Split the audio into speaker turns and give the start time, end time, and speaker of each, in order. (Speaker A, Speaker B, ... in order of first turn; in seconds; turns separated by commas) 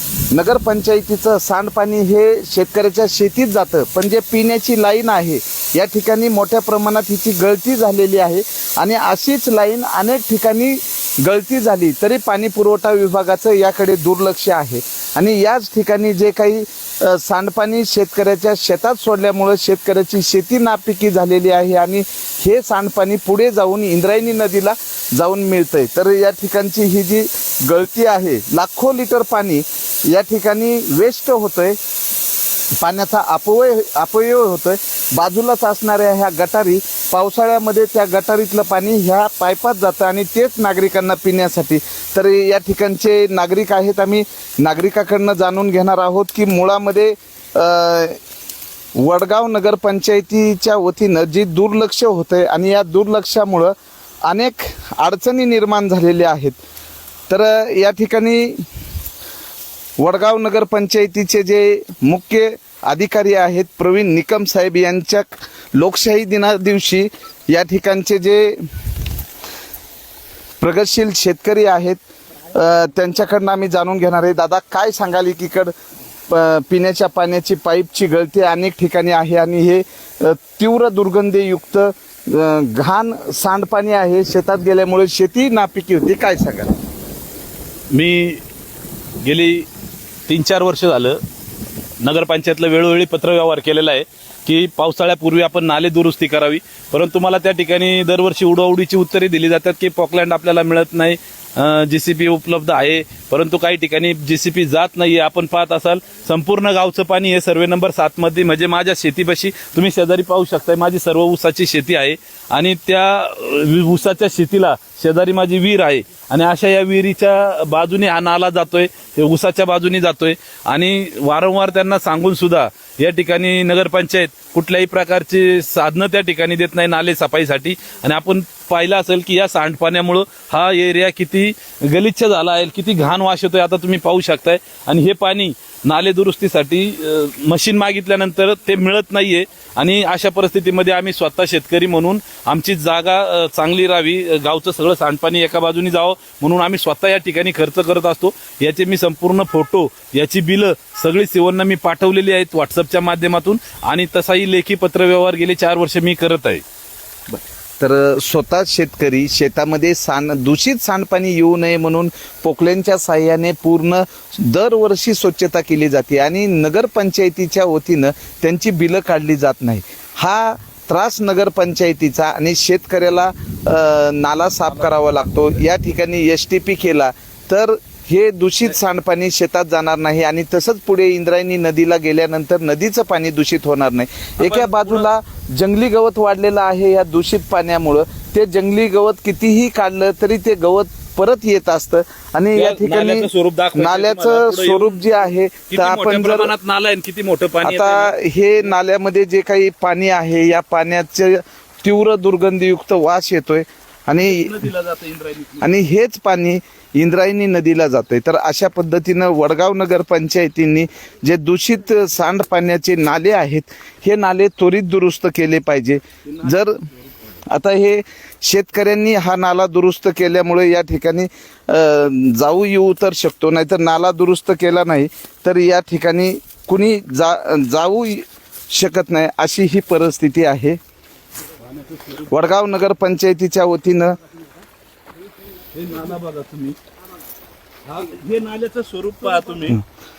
Speaker A: 0.3-31.8, Speaker A: 32.8-48.2, Speaker A: 48.9-56.6, Speaker A: 57.3-58.6, Speaker A: 60.0-68.7, Speaker A: 70.6-75.7, Speaker A: 76.3-86.7, Speaker B: 87.9-88.4, Speaker B: 89.2-89.7, Speaker B: 90.3-91.2, Speaker B: 92.0-156.6, Speaker A: 157.3-196.5, Speaker B: 184.4-185.1, Speaker B: 192.5-198.1, Speaker A: 197.6-204.6, Speaker B: 204.2-205.8, Speaker A: 205.6-216.8, Speaker B: 216.2-216.6, Speaker A: 217.4-230.8, Speaker B: 231.7-232.4, Speaker A: 232.3-234.2, Speaker B: 235.7-236.8, Speaker B: 237.8-239.8